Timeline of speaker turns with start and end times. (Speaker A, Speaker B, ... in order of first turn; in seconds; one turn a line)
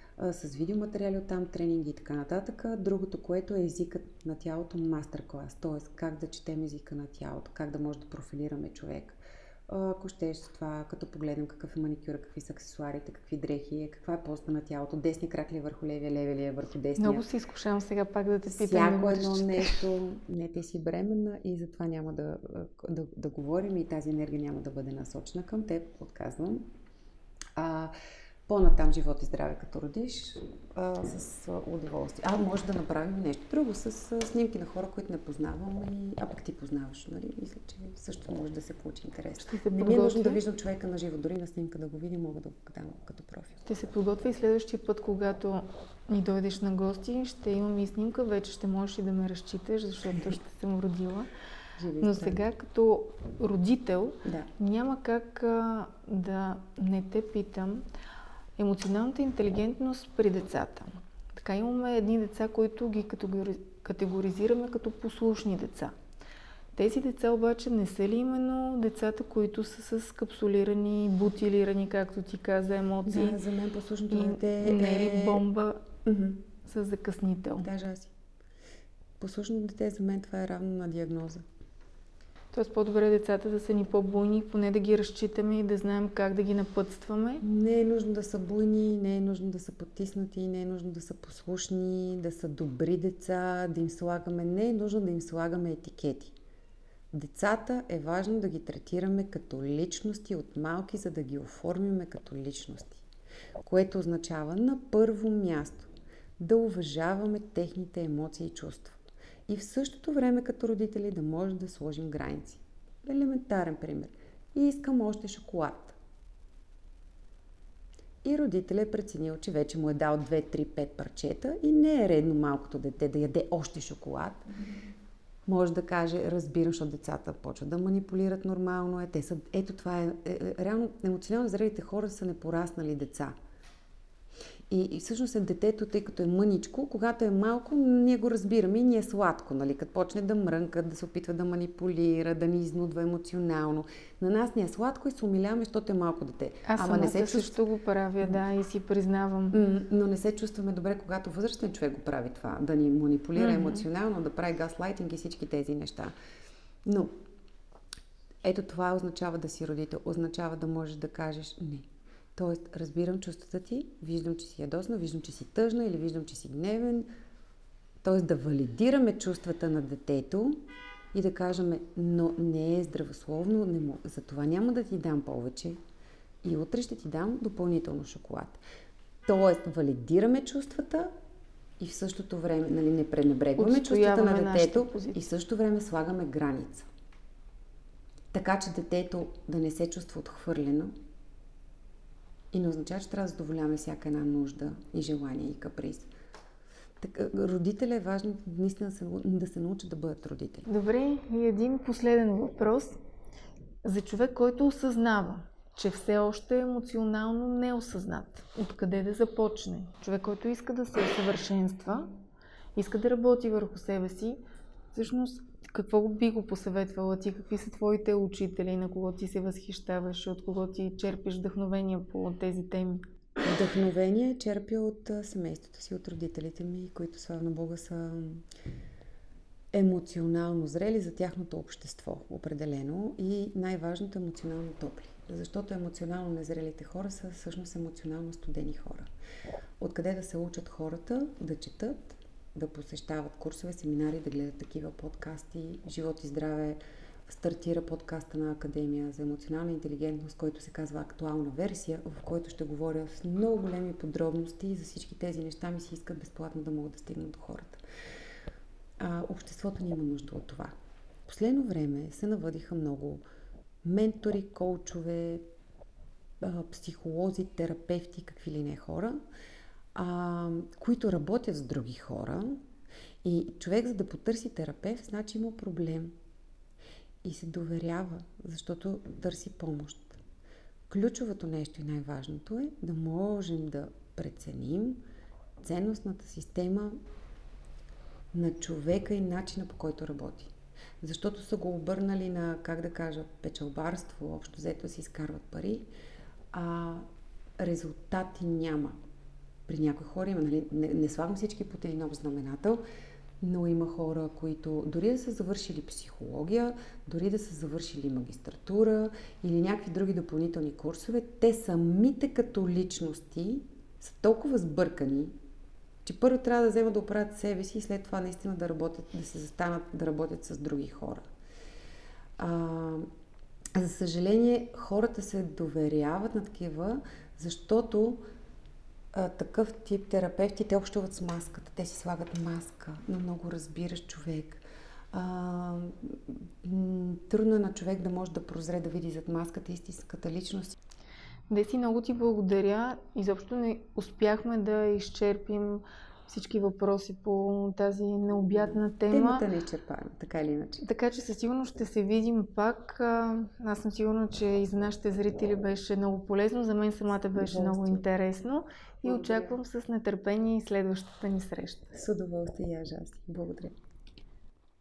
Speaker A: 0.2-17.3
Speaker B: 17.0-19.8
Speaker A: 18.5-26.7
Speaker A: 27.6-27.9
Speaker A: 28.5-43.6
Speaker B: 39.5-40.4
Speaker B: 43.7-51.3
Speaker A: 51.8-52.4
Speaker B: 52.0-57.9
Speaker A: 54.2-54.5
Speaker B: 58.6-66.0
Speaker B: 66.8-73.4
Speaker A: 73.1-75.5
Speaker B: 74.1-75.9
Speaker A: 76.0-76.5
Speaker B: 76.7-77.7
Speaker A: 77.6-78.1
Speaker A: 79.2-81.5
Speaker B: 82.5-87.4
Speaker A: 87.4-96.4
Speaker A: 97.1-103.0
Speaker A: 103.6-116.0
Speaker A: 118.2-124.5
Speaker A: 125.5-133.3
Speaker A: 134.7-147.6
Speaker B: 146.7-149.6
Speaker A: 149.5-156.1
Speaker B: 153.4-153.8
Speaker A: 156.8-157.2
Speaker A: 158.4-167.1
Speaker A: 168.0-175.8
Speaker A: 176.4-178.6
Speaker A: 179.3-181.1
Speaker A: 181.8-186.9
Speaker B: 183.6-185.2
Speaker A: 188.3-190.9
Speaker A: 192.5-196.1
Speaker A: 197.0-200.7
Speaker B: 200.7-203.0
Speaker B: 203.8-212.1
Speaker B: 212.8-214.4
Speaker B: 214.9-223.1
Speaker A: 223.4-228.4
Speaker A: 229.7-239.1
Speaker A: 239.8-257.8
Speaker A: 259.0-260.7
Speaker A: 261.3-263.2
Speaker A: 263.8-265.5
Speaker A: 266.4-269.2
Speaker A: 269.9-272.6
Speaker A: 273.2-276.1
Speaker A: 277.2-280.2
Speaker A: 280.9-285.0
Speaker A: 285.6-287.0
Speaker A: 288.3-295.9
Speaker A: 296.5-297.1
Speaker A: 297.6-299.0
Speaker A: 299.7-302.8
Speaker A: 303.4-315.3
Speaker A: 316.0-321.3
Speaker A: 322.4-323.1
Speaker A: 323.8-328.2
Speaker A: 329.1-340.8
Speaker B: 341.5-349.4
Speaker A: 348.7-350.8
Speaker B: 350.8-361.9
Speaker A: 357.3-358.0
Speaker A: 359.0-359.6
Speaker A: 361.9-363.7